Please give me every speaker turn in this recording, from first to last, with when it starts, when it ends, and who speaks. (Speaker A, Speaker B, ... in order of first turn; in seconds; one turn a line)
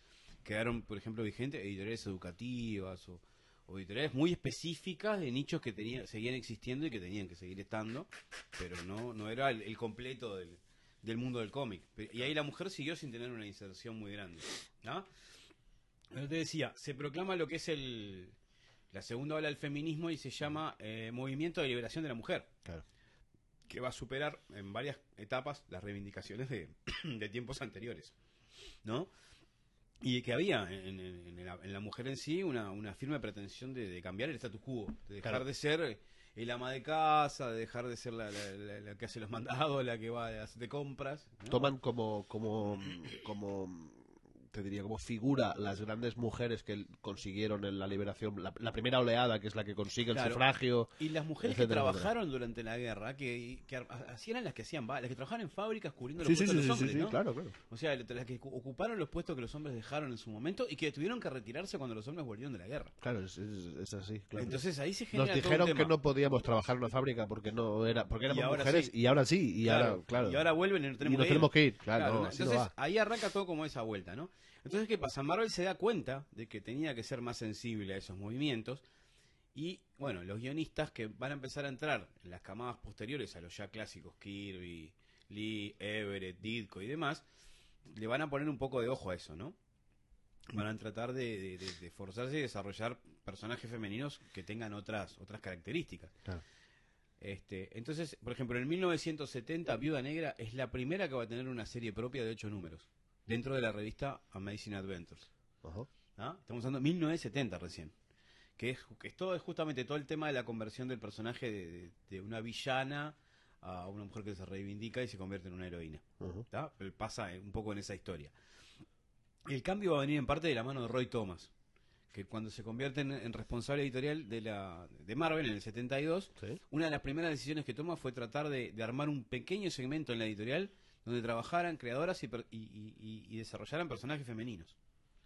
Speaker A: 0.5-15.1
Speaker A: 16.1-18.4
Speaker A: 18.9-22.5
Speaker A: 23.7-28.1
Speaker A: 28.9-29.1
Speaker A: 30.0-41.7
Speaker B: 41.5-52.1
Speaker A: 50.1-50.5
Speaker A: 51.0-62.9
Speaker B: 56.2-57.5
Speaker B: 63.0-64.6
Speaker A: 64.4-65.9
Speaker B: 65.1-70.5
Speaker A: 68.3-68.9
Speaker A: 69.6-78.8
Speaker B: 71.0-72.7
Speaker A: 79.5-87.2
Speaker A: 87.9-89.6
Speaker A: 90.5-96.1
Speaker A: 97.2-105.3
Speaker B: 105.6-105.9
Speaker A: 106.2-107.9
Speaker A: 108.6-118.3
Speaker B: 116.2-116.5
Speaker A: 119.5-121.5
Speaker A: 122.1-134.8